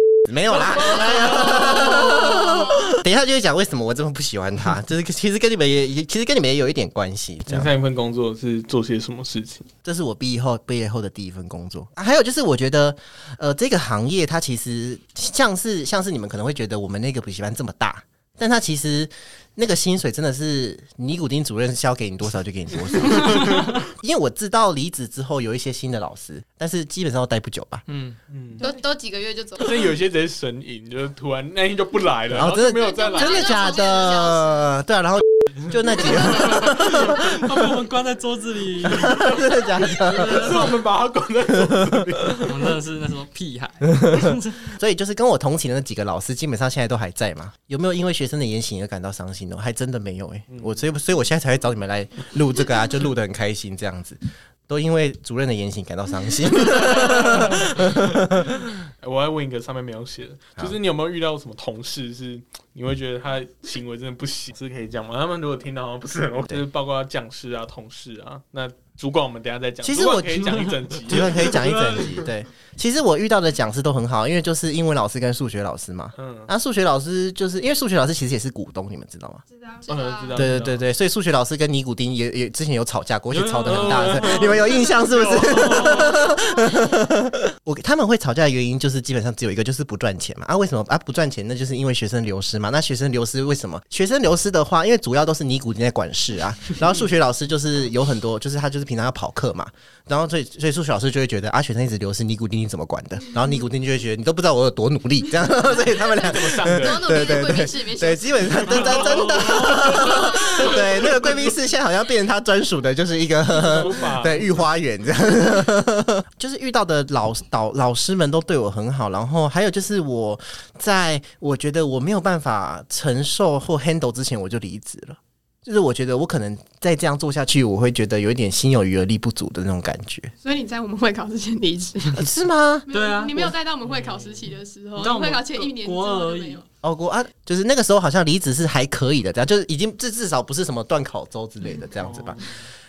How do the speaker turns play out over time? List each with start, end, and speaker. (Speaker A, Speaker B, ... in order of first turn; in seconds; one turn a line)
Speaker A: 0.2-7.7
Speaker B: 1.3-2.5
Speaker C: 7.5-9.7
Speaker A: 9.8-27.8
Speaker B: 27.9-28.2
Speaker C: 28.3-28.6
Speaker D: 28.6-29.9
Speaker C: 29.6-34.1
Speaker A: 32.3-37.7
Speaker D: 32.8-34.6
Speaker B: 36.1-40.8
Speaker A: 38.8-40.6
Speaker C: 40.3-42.5
Speaker A: 41.7-42.0
Speaker B: 42.3-44.7
Speaker A: 43.8-58.6
Speaker C: 50.5-50.8
Speaker C: 56.8-57.7
Speaker C: 59.0-71.6
Speaker A: 69.8-70.5
Speaker A: 71.1-79.4
Speaker B: 71.3-72.3
Speaker C: 76.2-76.5
Speaker D: 79.5-80.5
Speaker C: 79.9-80.8
Speaker A: 80.3-130.3
Speaker B: 83.3-84.9
Speaker C: 83.6-86.2
Speaker B: 85.4-86.2
Speaker C: 106.0-107.2
Speaker D: 106.6-110.7
Speaker C: 109.2-109.8
Speaker C: 113.5-114.5
Speaker E: 130.4-132.3
Speaker A: 132.1-133.5
Speaker E: 132.9-136.6
Speaker B: 132.9-133.5
Speaker B: 135.0-136.6
Speaker A: 136.8-142.4
Speaker C: 142.0-142.5